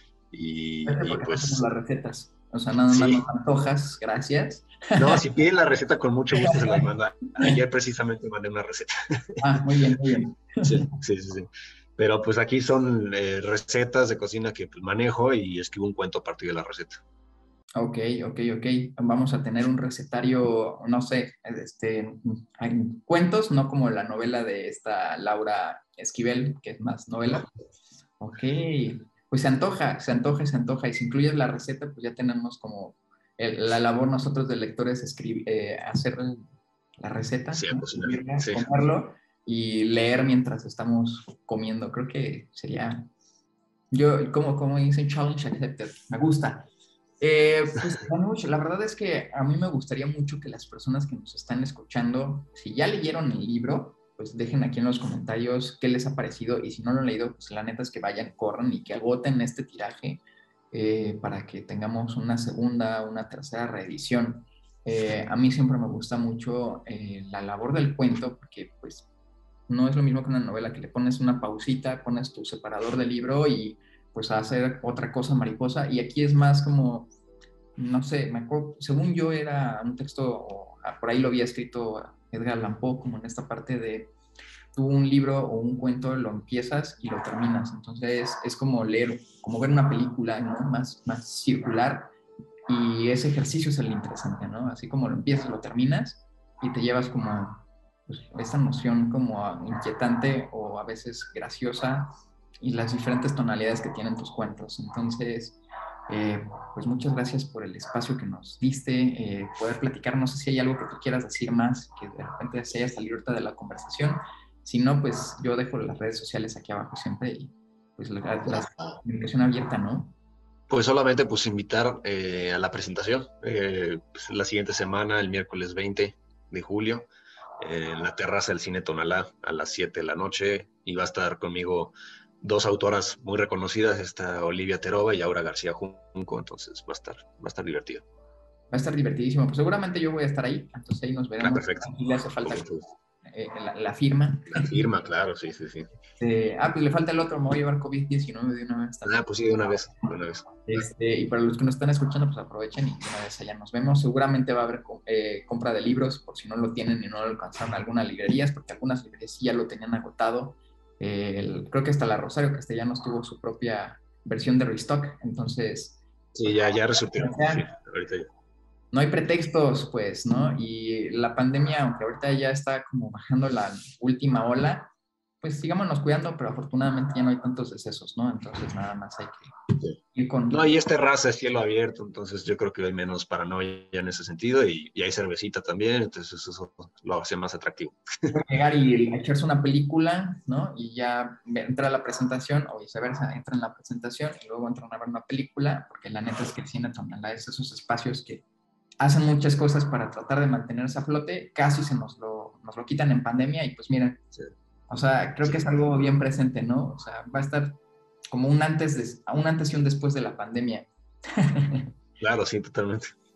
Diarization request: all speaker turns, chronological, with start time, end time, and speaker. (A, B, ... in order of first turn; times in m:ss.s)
0:00.3-0:01.6 A
0:00.8-0:05.2 B
0:02.9-0:03.2 A
0:05.0-0:09.4 A
0:06.4-0:06.8 B
0:09.4-0:10.9 B
0:10.6-0:17.0 A
0:17.8-0:27.5 B
0:28.2-0:36.4 B
0:37.0-0:43.1 B
0:37.5-0:38.7 A
0:43.9-0:46.7 B
0:47.2-1:00.2 B
1:00.7-1:09.1 B
1:09.7-1:17.1 B
1:17.8-1:24.1 B
1:24.7-1:32.1 B
1:32.7-1:42.1 B
1:42.6-1:45.6 B
1:46.1-2:00.1 B
1:58.5-1:59.0 A
2:00.7-2:18.0 A
2:18.7-2:22.6 B
2:21.4-2:21.9 A
2:22.4-2:22.8 A
2:23.2-2:24.7 B
2:24.5-2:25.9 A
2:26.2-2:29.7 B
2:29.0-2:30.5 A
2:30.6-2:46.0 B
2:46.3-2:48.2 A
2:47.2-2:47.7 B
2:48.9-2:54.9 B
2:55.4-2:59.5 B
3:00.1-3:00.7 B
3:00.5-3:08.3 A
3:08.3-3:18.4 B
3:19.0-3:24.2 B
3:24.9-3:27.8 B
3:28.3-3:31.9 B
3:32.2-3:33.1 A